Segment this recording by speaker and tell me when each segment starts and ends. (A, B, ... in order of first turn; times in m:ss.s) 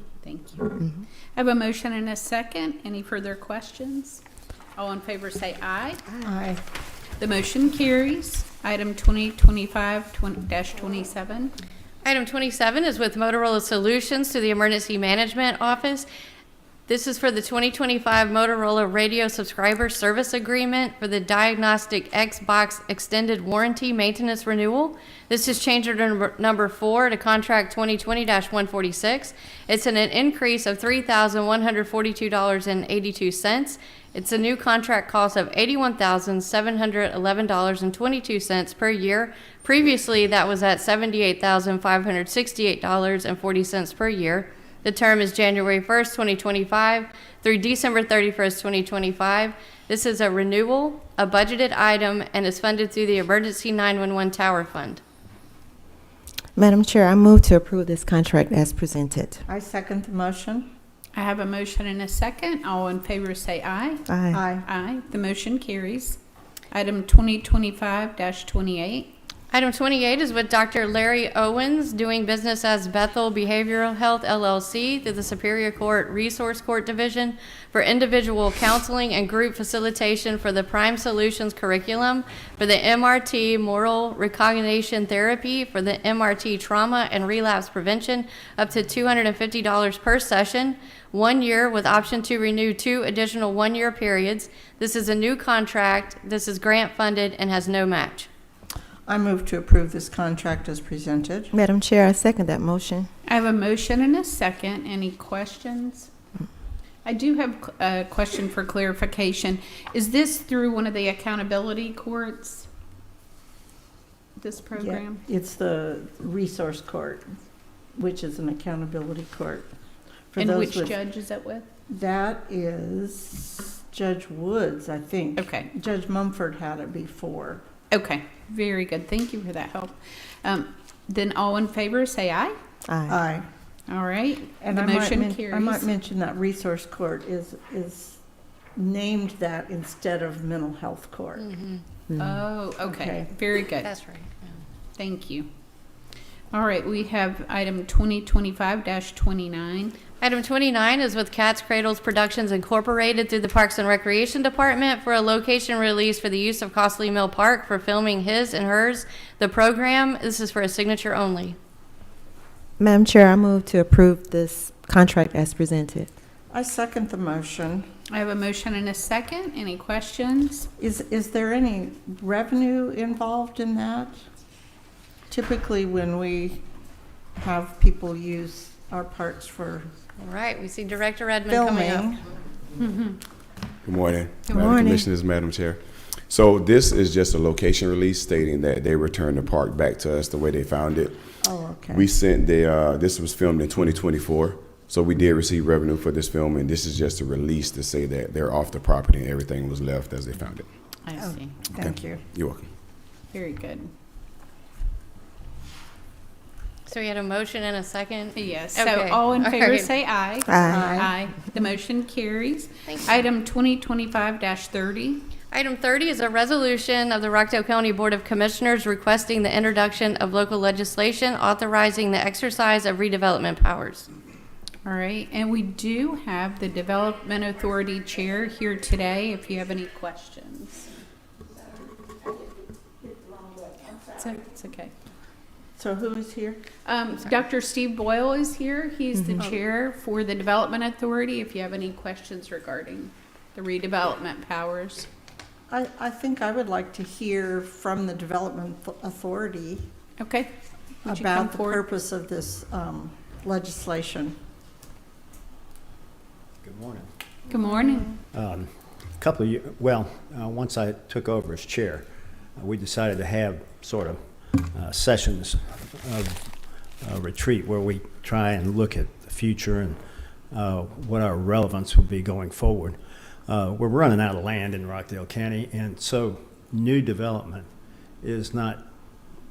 0:00.2-0:00.8 A
0:01.4-0:04.2 A
0:04.8-0:06.0 A
0:06.2-0:06.6 B
0:07.2-0:11.5 A
0:12.0-0:16.1 C
0:16.9-0:55.0 C
0:56.6-0:59.4 D
0:59.5-1:00.7 B
1:01.1-1:04.0 A
1:04.1-1:04.5 D
1:04.3-1:04.6 B
1:04.6-1:06.2 A
1:06.7-1:09.1 A
1:09.5-1:38.3 C
1:39.1-1:41.5 B
1:41.5-1:43.1 D
1:43.3-1:46.1 A
1:47.0-1:52.7 A
1:54.4-1:55.2 A
1:54.8-1:57.3 B
1:58.0-1:59.7 B
2:00.3-2:01.0 B
2:00.4-2:01.7 A
2:01.9-2:07.6 B
2:05.4-2:05.7 A
2:07.9-2:12.6 A
2:12.9-2:13.2 D
2:13.1-2:13.5 B
2:13.9-2:15.9 A
2:14.6-2:18.2 B
2:18.8-2:21.5 B
2:21.4-2:21.8 C
2:22.1-2:22.4 D
2:22.2-2:23.9 A
2:22.8-2:23.3 B
2:23.8-2:24.5 C
2:25.0-2:25.5 A
2:26.5-2:30.0 A
2:30.2-2:41.6 C
2:42.8-2:46.1 D
2:46.5-2:47.9 B
2:48.1-2:50.7 A
2:50.8-2:54.2 B
2:55.3-2:56.6 B
2:57.4-2:59.9 B
3:00.2-3:02.1 C
3:01.5-3:02.2 B
3:02.8-3:03.2 A
3:03.8-3:20.7 E
3:04.5-3:04.8 A
3:04.5-3:04.9 B
3:04.7-3:05.0 D
3:11.4-3:12.1 B
3:21.0-3:21.6 A
3:21.2-3:22.3 B
3:21.8-3:22.7 E
3:23.3-3:23.9 A
3:26.9-3:29.9 C
3:28.4-3:35.2 A
3:30.5-3:31.0 D
3:30.7-3:31.1 B
3:35.5-3:44.1 C
3:44.8-3:50.9 A
3:54.1-3:54.9 A
3:55.8-3:56.6 B
3:56.8-4:05.1 A
3:59.1-3:59.4 D
4:05.7-4:09.9 B
4:10.2-4:10.5 A
4:11.0-4:11.8 A
4:11.1-4:14.4 B
4:16.6-4:17.1 F
4:17.5-4:18.1 A
4:18.3-4:37.7 F
4:38.2-4:38.8 F